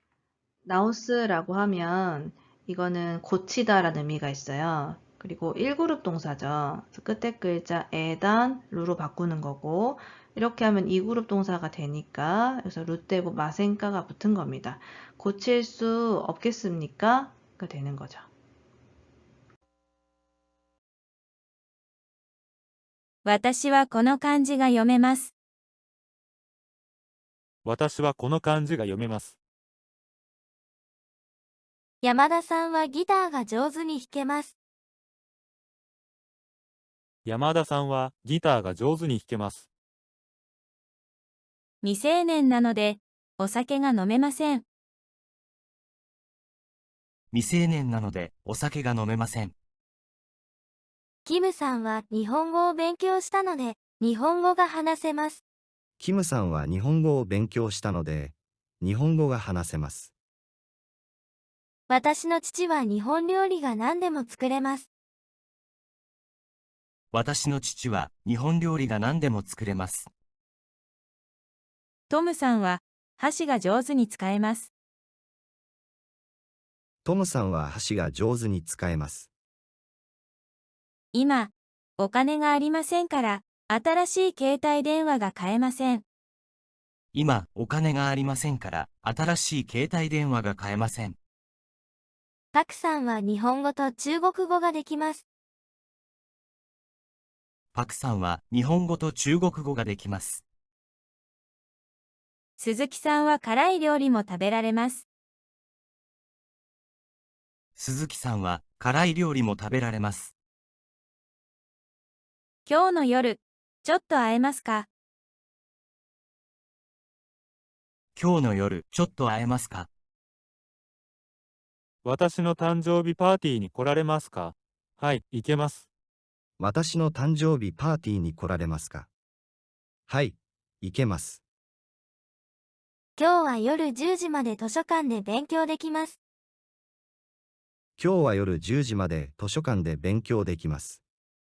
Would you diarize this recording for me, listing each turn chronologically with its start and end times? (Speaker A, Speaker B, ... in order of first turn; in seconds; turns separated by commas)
Speaker A: 0.7-18.3, Speaker B: 23.2-25.3, Speaker C: 27.6-29.4, Speaker D: 32.0-34.5, Speaker C: 37.3-39.7, Speaker B: 41.8-44.6, Speaker E: 47.3-49.5, Speaker D: 51.3-55.4, Speaker F: 56.0-60.1, Speaker D: 61.9-64.9, Speaker E: 67.1-70.1, Speaker B: 72.1-74.7, Speaker F: 77.0-79.3, Speaker B: 81.1-86.0, Speaker E: 87.1-91.2, Speaker D: 92.5-95.2, Speaker E: 97.7-100.5, Speaker B: 102.6-105.0, Speaker E: 107.8-110.3, Speaker B: 112.7-114.9, Speaker E: 118.2-119.9, Speaker C: 122.0-125.9, Speaker F: 126.6-129.1, Speaker F: 130.1-131.4, Speaker D: 133.2-136.2, Speaker F: 138.0-141.0